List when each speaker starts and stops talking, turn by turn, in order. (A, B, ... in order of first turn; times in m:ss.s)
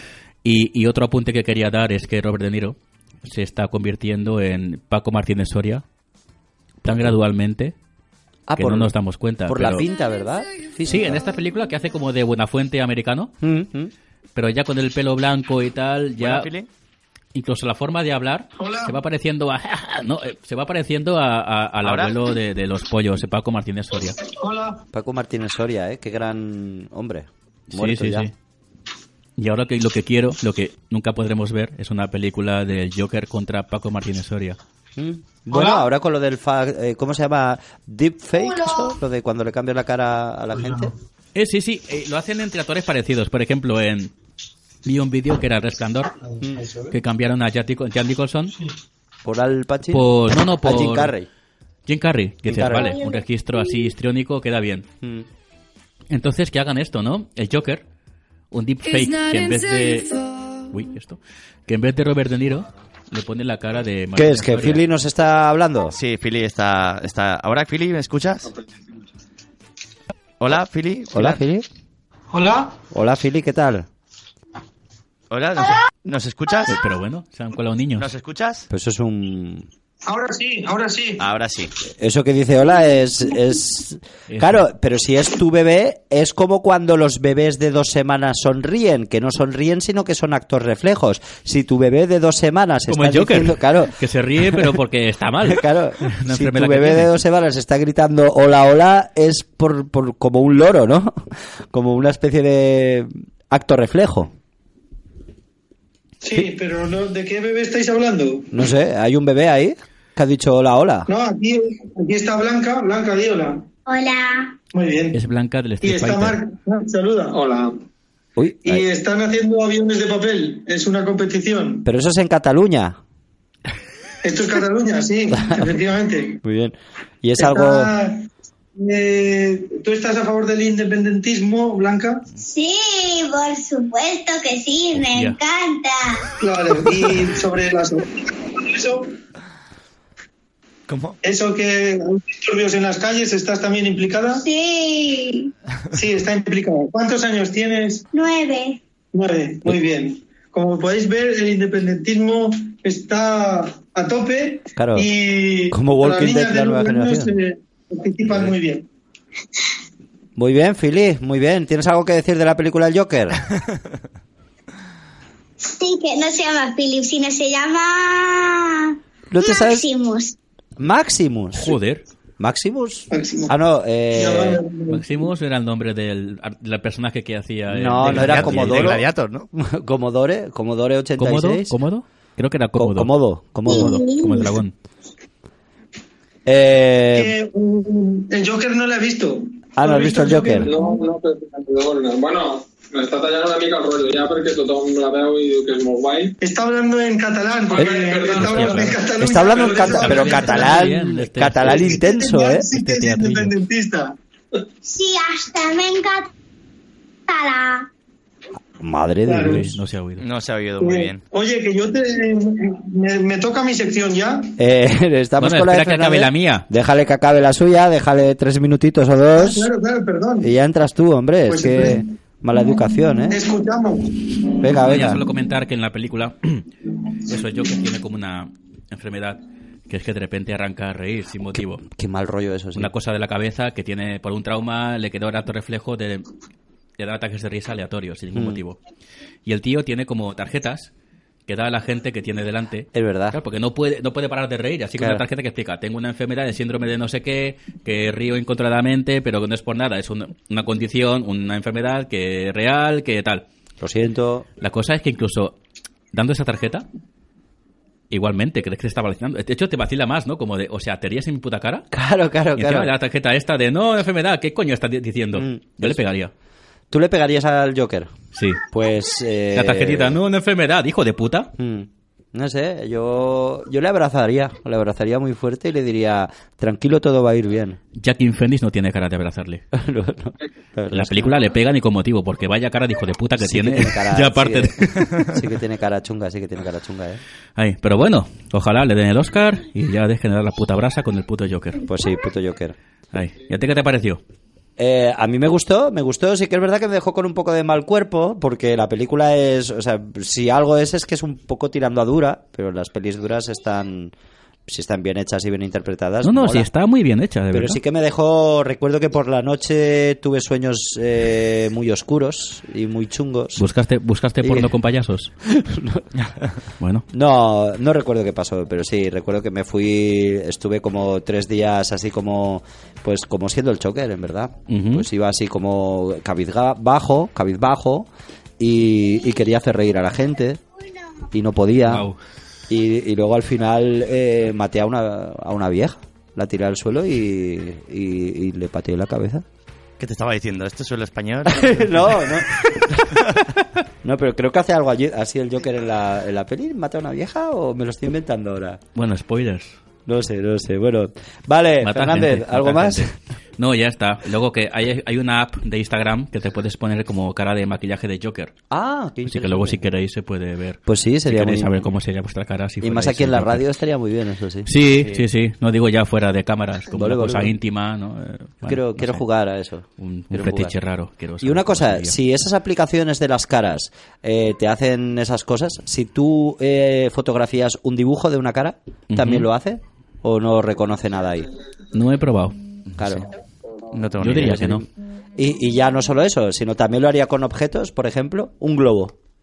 0:00.4-0:05.8 A
0:06.8-0:07.7 A
0:08.5-0:08.9 B
0:08.6-0:09.8 A
0:09.5-0:11.2 B
0:10.9-0:13.3 A
0:13.4-0:13.9 B
0:14.4-0:16.5 A
0:16.2-0:16.7 C
0:17.3-0:24.2 A
0:18.6-0:19.0 D
0:21.8-0:22.2 C
0:24.4-0:24.8 D
0:24.9-0:28.3 B
0:27.7-0:28.3 A
0:29.4-0:34.6 A
0:35.0-0:40.9 B
0:41.3-0:44.1 A
0:44.8-0:46.2 A
0:46.4-0:46.7 B
0:46.9-0:48.5 A
0:49.2-0:51.3 B
0:49.9-0:51.1 A
0:51.9-0:54.9 A
0:52.4-0:53.0 B
0:52.8-0:53.2 E
0:55.0-0:55.3 B
0:56.1-0:57.8 A
0:58.5-1:04.8 A
1:04.2-1:06.0 B
1:05.9-1:08.5 C
1:10.4-1:11.4 C
1:11.1-1:11.7 B
1:12.3-1:12.7 D
1:12.9-1:13.8 B
1:15.3-1:16.8 C
1:16.7-1:18.1 A
1:18.0-1:18.7 C
1:18.7-1:19.7 B
1:20.0-1:21.2 D
1:21.2-1:21.7 C
1:22.0-1:34.8 B
1:24.3-1:24.6 A
1:32.9-1:37.1 A
1:35.5-1:44.3 B
1:46.2-1:48.5 D
1:48.5-1:51.1 B
1:51.1-1:53.6 D
1:53.8-1:54.6 E
1:54.7-1:55.2 D
1:55.1-1:56.4 A
1:55.8-1:57.4 D
1:57.3-1:57.7 F
1:58.4-1:58.8 B
1:58.6-2:01.8 D
2:01.8-2:03.0 B
2:04.2-2:06.4 D
2:05.3-2:05.7 B
2:06.4-2:07.9 B
2:07.4-2:12.2 D
2:12.4-2:16.2 E
2:15.0-2:15.4 A
2:16.4-2:19.1 D
2:20.9-2:21.2 C
2:21.2-2:24.4 D
2:24.4-2:25.5 E
2:25.9-2:28.0 D
2:28.1-2:28.8 E
2:29.1-2:38.8 D
2:34.8-2:35.1 B
2:35.7-2:37.4 B
2:40.4-2:43.4 B
2:45.6-2:50.4 E
2:49.3-2:49.9 B
2:50.8-2:51.8 B
2:51.6-2:52.0 A
2:52.4-2:54.6 B
2:53.1-2:53.5 D
2:54.1-2:55.0 D
2:54.9-2:59.0 A
2:57.7-3:01.8 B
2:58.1-2:59.5 C
3:01.2-3:03.1 A
3:02.8-3:04.5 B
3:03.6-3:04.7 A
3:03.6-3:04.6 E
3:06.4-3:07.3 B
3:07.1-3:10.7 D
3:09.8-3:10.7 B
3:10.6-3:16.3 F
3:16.4-3:20.8 D
3:17.7-3:18.9 F
3:18.4-3:19.0 A
3:18.6-3:22.7 B
3:19.5-3:19.9 F
3:19.9-3:22.0 A
3:21.6-3:24.1 D
3:22.7-3:23.5 A
3:24.8-3:26.3 E
3:27.3-3:27.9 E
3:28.8-3:29.8 B
3:29.2-3:29.6 D
3:29.4-3:30.2 A
3:30.2-3:31.2 C
3:30.8-3:34.5 D
3:34.6-3:39.7 B
3:35.4-3:36.6 A
3:39.4-3:40.5 D
3:40.4-3:43.4 B
3:41.5-3:42.1 D
3:43.3-3:44.6 D
3:44.6-3:45.2 B
3:44.8-3:46.6 A
3:47.2-3:51.8 A
3:51.5-3:52.9 B
3:52.7-3:56.2 A
3:57.0-3:58.8 A
3:58.3-3:58.6 B
3:59.4-4:00.9 A
4:01.5-4:13.4 A
4:02.9-4:03.4 B
4:05.0-4:05.2 B
4:13.8-4:14.4 B
4:14.6-4:15.6 A
4:16.1-4:16.8 A
4:18.1-4:21.8 A
4:21.9-4:22.9 B
4:22.6-4:26.3 A
4:25.3-4:26.0 B
4:26.9-4:28.1 B
4:28.3-4:28.6 A
4:28.7-4:30.2 B
4:29.5-4:31.5 A
4:31.6-4:37.8 B
4:38.0-4:39.6 A
4:39.7-4:41.4 B
4:40.9-4:45.2 A
4:43.4-4:47.2 B
4:47.6-4:51.8 A
4:51.8-4:52.8 B
4:53.1-4:54.2 A
4:54.8-5:04.1 B
5:04.7-5:06.7 B
5:06.2-5:07.8 A
5:07.5-5:13.6 B
5:13.6-5:15.3 A
5:14.4-5:14.7 B
5:15.4-5:16.1 B
5:16.8-5:17.0 A
5:17.1-5:28.1 B
5:24.7-5:25.0 A
5:28.6-5:30.6 B
5:31.3-5:32.0 B
5:31.9-5:32.2 A
5:32.7-5:39.4 B
5:40.0-5:42.0 C
5:41.4-5:43.4 B
5:44.0-5:48.8 B
5:48.9-5:49.8 A
5:50.0-5:53.1 B
5:51.8-5:58.5 A
5:58.7-5:59.8 B
5:59.3-6:03.6 A
6:00.8-6:01.7 B
6:02.8-6:05.1 B
6:04.6-6:09.2 A
6:06.9-6:07.5 B
6:08.6-6:10.7 B
6:10.0-6:12.2 A
6:11.4-6:21.5 B
6:19.1-6:19.5 A
6:21.9-6:22.5 A
6:23.0-6:23.3 B
6:23.9-6:24.6 C
6:24.2-6:24.8 A
6:24.3-6:29.1 B